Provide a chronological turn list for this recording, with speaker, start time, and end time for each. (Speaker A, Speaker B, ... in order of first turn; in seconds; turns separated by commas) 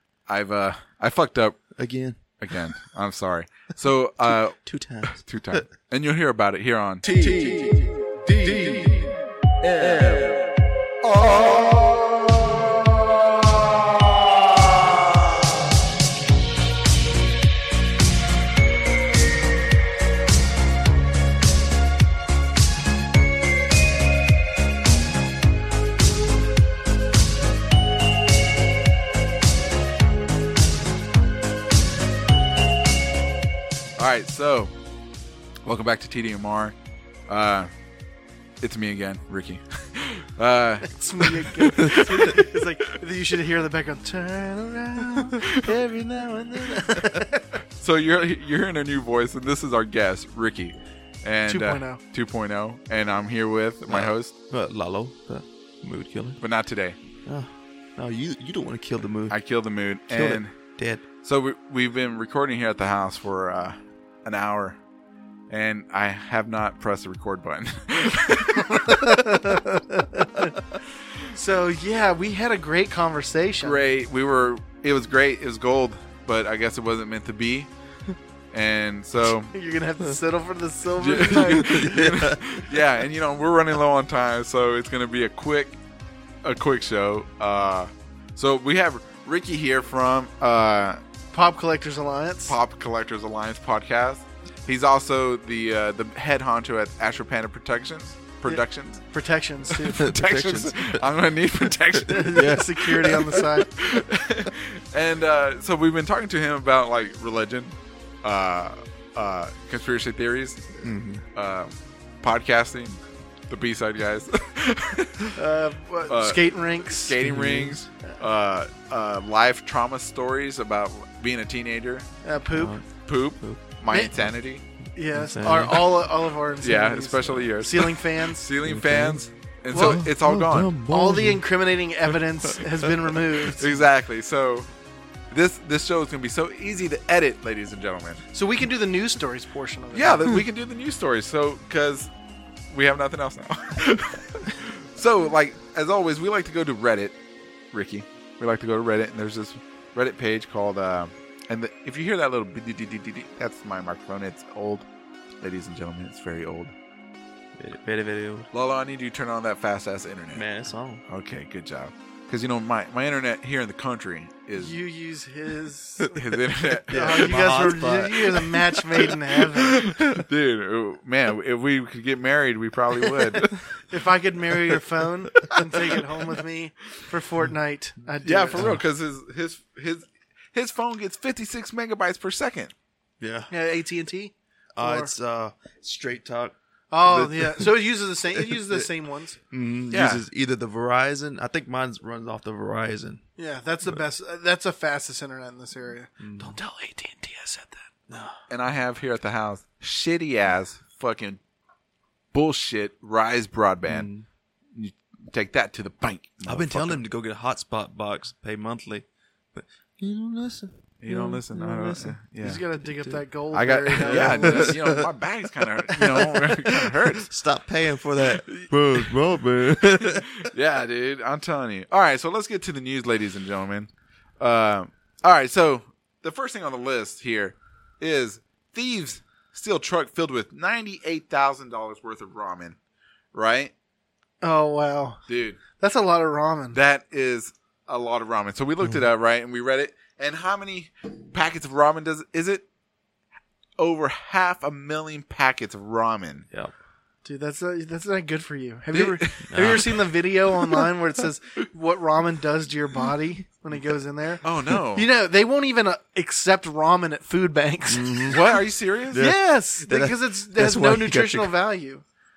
Speaker A: 0.3-1.6, Speaker B: 1.8-2.6, Speaker A: 2.4-4.6, Speaker B: 4.6-5.7, Speaker A: 5.2-9.1, Speaker A: 9.6-10.4, Speaker A: 11.0-12.4, Speaker A: 34.0-34.7, Speaker A: 35.6-36.7, Speaker A: 37.3-37.7, Speaker A: 38.6-42.4, Speaker C: 40.8-47.6, Speaker B: 41.8-42.1, Speaker A: 45.4-45.7, Speaker B: 46.8-47.1, Speaker A: 47.8-54.3, Speaker C: 51.5-52.0, Speaker B: 53.9-56.4, Speaker A: 56.4-57.0, Speaker B: 57.2-59.4, Speaker A: 59.3-60.5, Speaker B: 60.1-61.0, Speaker A: 61.2-64.8, Speaker A: 65.5-69.2, Speaker C: 68.8-70.5, Speaker C: 71.3-73.8, Speaker A: 73.6-77.7, Speaker A: 78.5-79.5, Speaker C: 79.5-82.2, Speaker A: 81.0-85.8, Speaker B: 81.3-82.4, Speaker A: 86.4-91.0, Speaker C: 91.3-92.5, Speaker A: 92.5-99.0, Speaker C: 98.4-100.0, Speaker A: 99.7-110.8, Speaker B: 99.9-101.0, Speaker C: 102.1-103.7, Speaker B: 102.2-103.3, Speaker B: 110.8-111.2, Speaker A: 111.3-113.0, Speaker A: 113.5-115.4, Speaker C: 115.3-117.2, Speaker A: 116.1-122.0, Speaker B: 117.2-117.8, Speaker C: 122.2-122.8, Speaker B: 122.5-122.8, Speaker A: 123.0-124.6, Speaker C: 125.0-128.5, Speaker B: 125.1-125.8, Speaker A: 126.6-130.7, Speaker B: 128.6-129.2, Speaker B: 129.7-131.4, Speaker C: 129.7-130.0, Speaker C: 130.9-133.8, Speaker B: 132.5-132.9, Speaker A: 133.5-134.7, Speaker A: 135.3-138.2, Speaker C: 138.3-140.3, Speaker A: 139.9-142.1, Speaker A: 142.7-147.2, Speaker A: 147.7-154.9, Speaker A: 155.4-156.7, Speaker B: 157.6-158.5, Speaker A: 158.5-160.4, Speaker B: 160.3-161.0, Speaker A: 161.1-164.8, Speaker C: 164.6-166.2, Speaker A: 166.1-167.5, Speaker B: 166.9-170.2, Speaker C: 166.9-169.8, Speaker A: 169.6-173.6, Speaker C: 173.2-178.8, Speaker A: 178.2-182.7, Speaker B: 183.2-183.5, Speaker C: 183.5-185.1, Speaker B: 184.8-187.7, Speaker C: 186.9-189.4, Speaker B: 188.3-188.9, Speaker B: 189.5-193.2, Speaker A: 189.9-190.2, Speaker C: 193.4-197.9, Speaker B: 196.2-196.6, Speaker B: 198.1-198.3, Speaker A: 198.5-201.4, Speaker A: 202.3-204.1, Speaker B: 203.8-204.2, Speaker A: 204.7-207.0, Speaker B: 206.4-212.2, Speaker A: 211.0-212.6, Speaker C: 212.4-214.8, Speaker B: 212.8-213.2, Speaker A: 213.5-217.3, Speaker B: 213.9-215.1, Speaker B: 215.9-220.4, Speaker A: 220.0-232.8, Speaker A: 233.3-233.7, Speaker C: 234.4-235.2, Speaker A: 235.3-235.6, Speaker C: 235.8-236.8, Speaker A: 236.7-242.7, Speaker A: 243.8-246.5, Speaker C: 247.2-258.3, Speaker A: 248.9-250.0, Speaker B: 249.5-249.9, Speaker A: 254.4-255.1, Speaker B: 257.9-258.5, Speaker A: 258.3-259.3, Speaker B: 259.1-261.5, Speaker C: 259.1-262.0